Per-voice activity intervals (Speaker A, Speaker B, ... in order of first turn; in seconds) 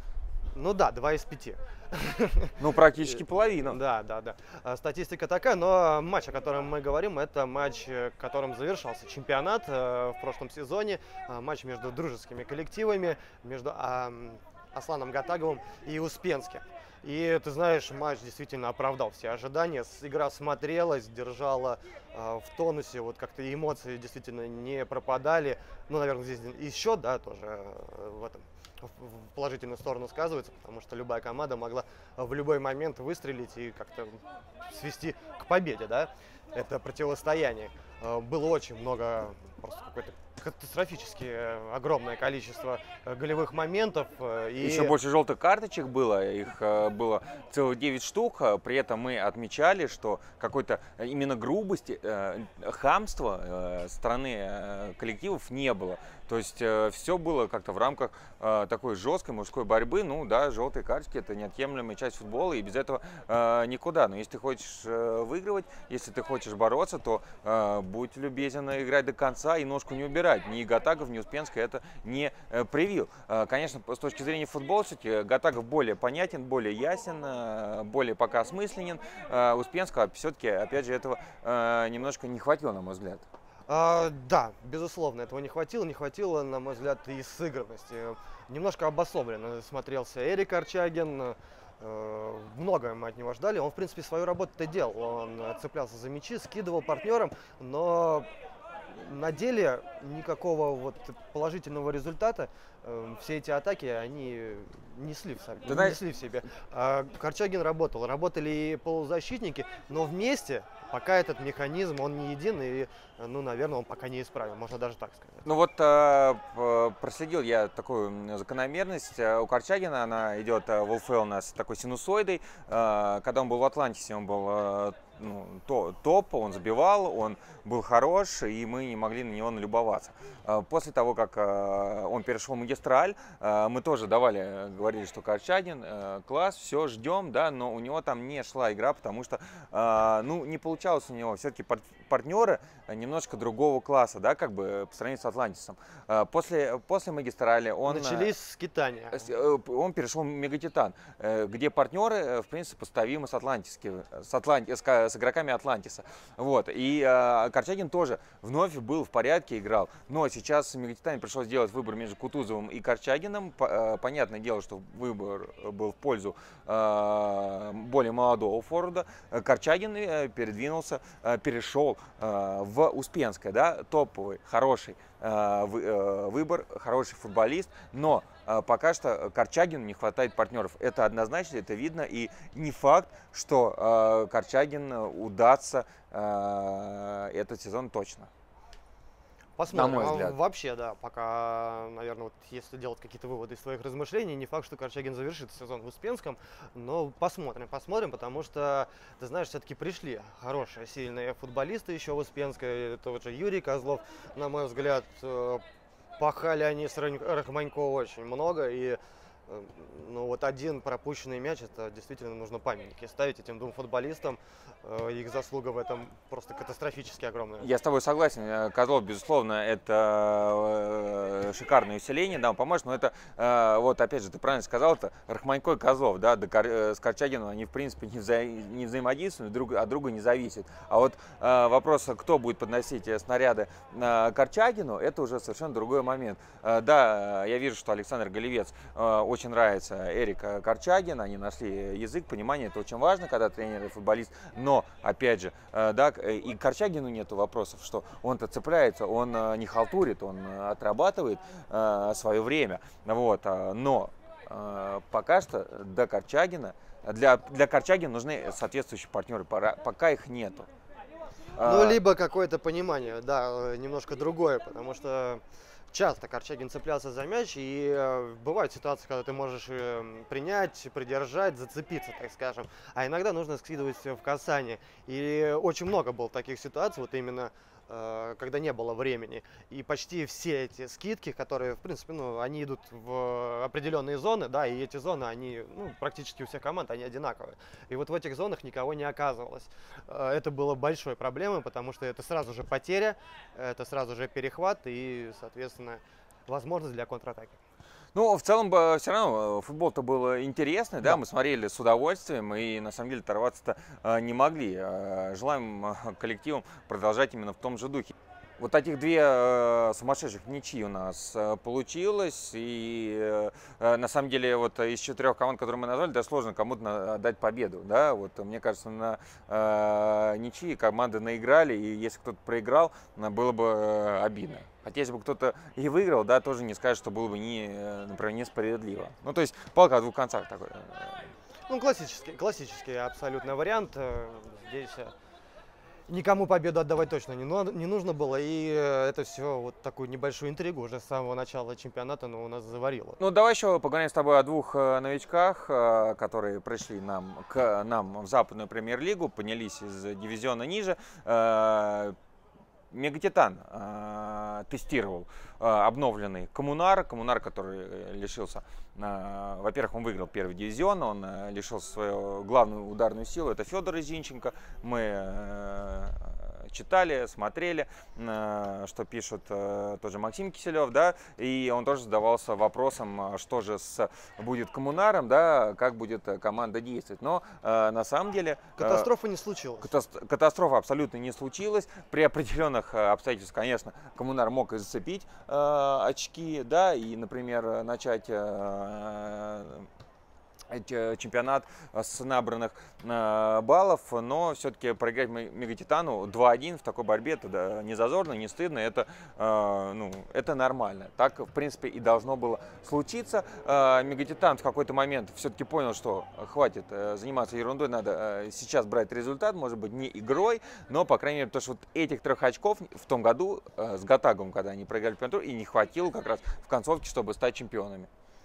Speaker A: 0.5-45.0, 83.7-98.3, 98.9-115.5, 147.8-149.3, 189.6-205.6, 206.2-217.7, 261.6-297.6, 331.7-335.1, 336.1-343.2, 378.8-379.9
Speaker B: 2.6-3.8, 44.6-83.2, 105.6-106.0, 115.5-148.3, 149.1-188.3, 189.7-190.4, 217.6-260.7, 261.6-262.0, 298.1-331.3, 343.2-352.2, 352.9-379.1, 379.8-389.9, 390.7-418.1